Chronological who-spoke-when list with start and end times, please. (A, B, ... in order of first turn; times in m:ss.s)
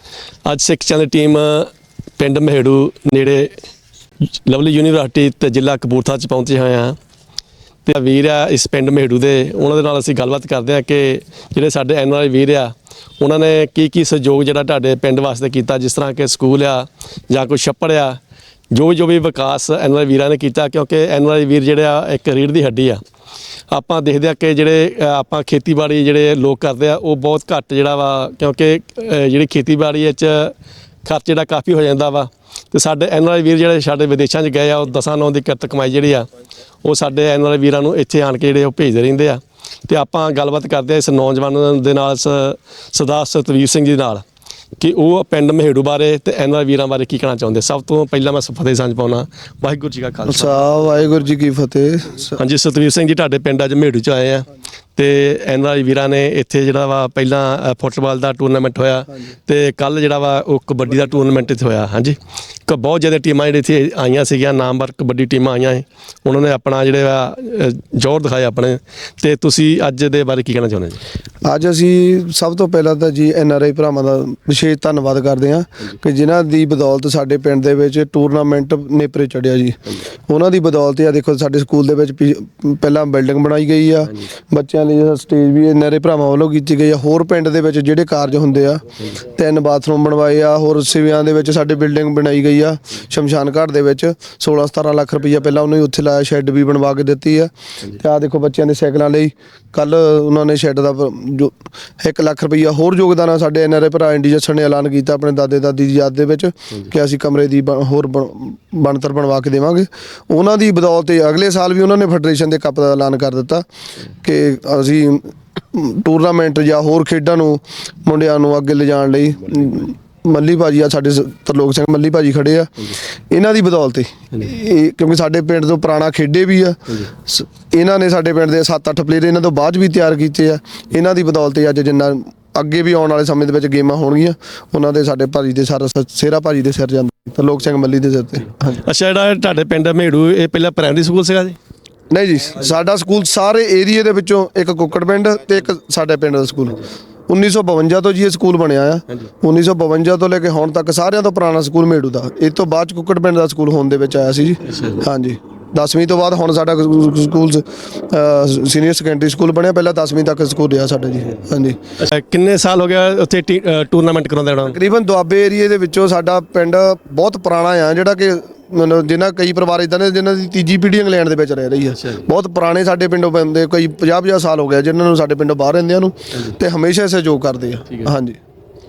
0:00.5-0:03.5 A
0:04.5-0:07.0 A
0:07.9-0:18.2 A
0:18.7-0:23.0 A
0:23.7-0:36.3 A
0:36.8-0:44.2 A
0:44.8-0:50.6 A
0:50.3-0:52.4 B
0:52.4-1:11.0 A
1:11.4-1:53.6 B
1:54.2-2:18.8 B
2:18.8-2:21.6 A
2:22.1-2:41.8 B
2:34.6-2:35.0 A
2:42.0-2:44.8 A
2:44.7-2:58.4 B
2:52.0-2:52.3 A